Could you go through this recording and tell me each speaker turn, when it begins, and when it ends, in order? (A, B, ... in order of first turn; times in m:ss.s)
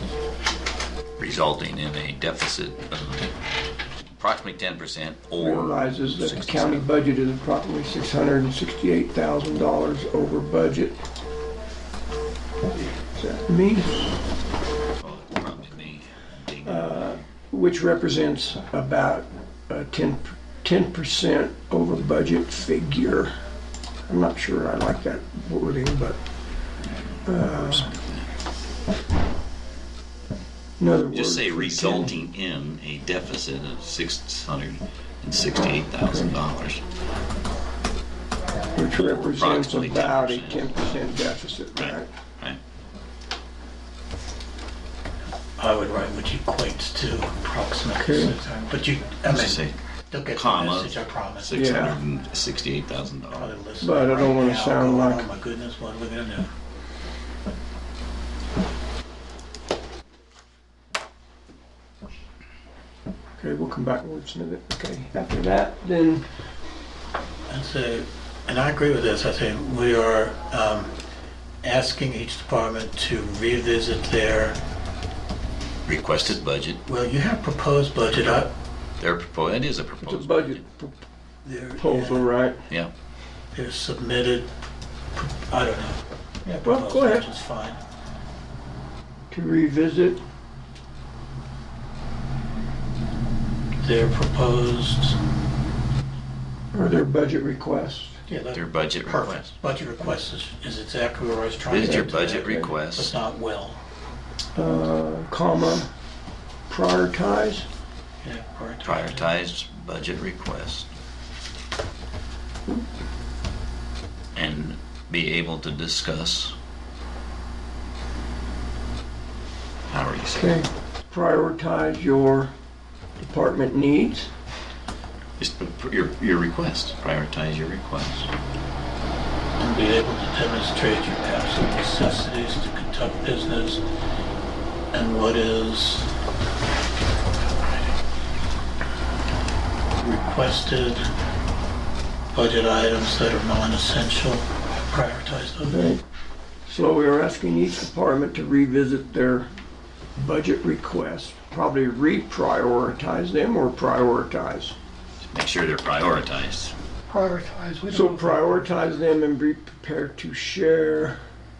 0:01.2-0:03.2 A
0:04.1-0:06.9 A
0:05.4-0:11.0 B
0:13.1-0:14.0 B
0:15.0-0:17.2 A
0:16.6-0:23.3 B
0:24.1-0:26.2 B
0:27.2-0:27.9 B
0:27.4-0:28.3 A
0:30.8-0:32.1 B
0:31.1-0:36.8 A
0:36.0-0:36.3 B
0:38.7-0:42.1 B
0:39.0-0:41.1 A
0:41.8-0:42.6 A
0:45.6-0:51.6 C
0:47.9-0:48.3 B
0:49.3-0:49.7 A
0:50.3-0:53.6 A
0:51.5-0:52.0 B
0:53.3-0:56.5 C
0:53.8-0:55.2 B
1:03.4-1:06.2 B
1:07.5-1:10.9 C
1:11.6-1:14.6 C
1:15.8-1:16.8 A
1:16.8-1:18.5 C
1:19.0-1:20.6 A
1:20.0-1:21.0 B
1:21.4-1:22.3 C
1:21.8-1:22.6 B
1:23.5-1:24.5 C
1:25.2-1:27.8 C
1:26.6-1:27.2 B
1:29.3-1:30.2 B
1:33.8-1:35.2 C
1:36.7-1:38.2 B
1:38.3-1:43.8 C
1:38.5-1:39.5 A
1:41.7-1:43.1 A
1:41.9-1:42.7 B
1:44.5-1:45.9 B
1:46.7-1:47.6 B
1:48.2-1:49.3 C
1:48.8-1:50.9 A
1:54.3-1:56.6 A
1:59.9-2:00.6 A
2:00.3-2:02.5 B
2:03.2-2:04.3 B
2:05.4-2:08.3 A
2:09.6-2:13.8 C
2:14.9-2:16.1 C
2:20.0-2:21.0 C
2:22.3-2:25.9 C
2:25.7-2:26.0 B
2:26.7-2:29.5 B
2:30.2-2:34.8 B
2:35.2-2:36.7 A
2:37.1-2:38.7 C
2:37.9-2:41.2 B